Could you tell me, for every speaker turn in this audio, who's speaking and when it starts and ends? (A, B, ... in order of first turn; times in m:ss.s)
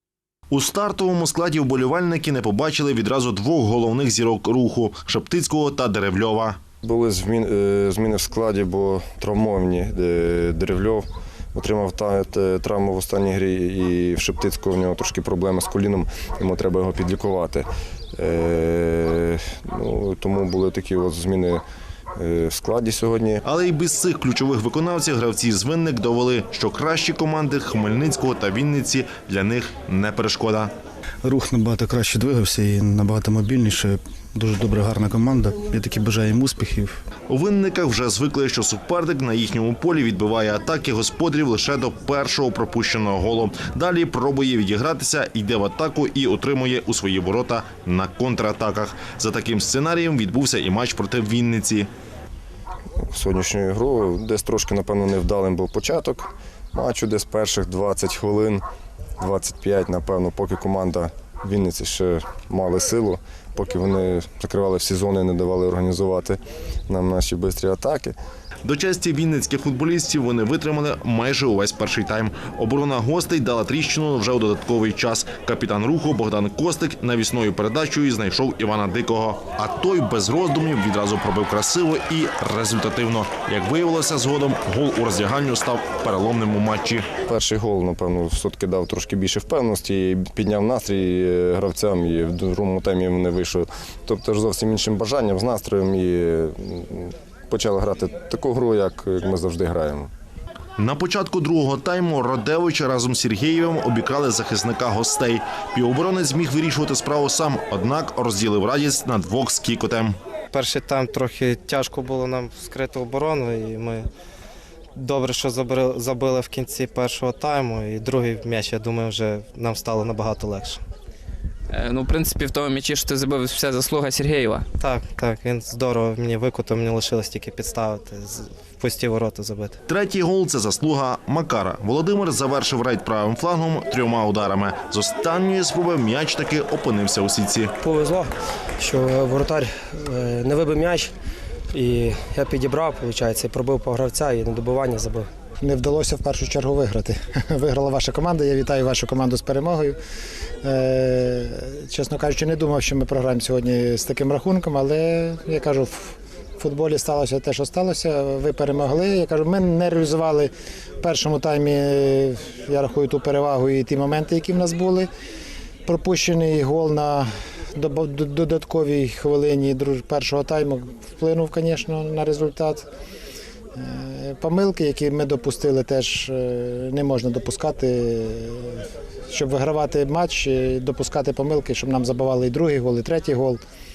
0:00.5-0:06.6 A
0:06.8-0:21.6 B
0:22.2-0:23.4 B
0:23.4-0:30.7 A
0:31.2-0:37.0 C
0:37.3-0:51.9 A
0:53.1-0:58.6 B
0:59.2-1:08.1 B
1:08.6-1:27.1 A
1:27.3-1:40.1 B
1:40.8-1:50.2 A
1:50.5-1:54.1 D
1:54.9-2:00.8 D
2:01.7-2:04.7 E
2:04.8-2:09.8 D
2:09.9-2:17.7 A
2:17.8-2:21.1 F
2:21.7-2:25.3 F
2:25.6-2:30.0 G
2:30.6-2:40.5 G
2:41.0-2:45.1 G
2:45.8-2:52.9 G
2:53.7-3:03.6 G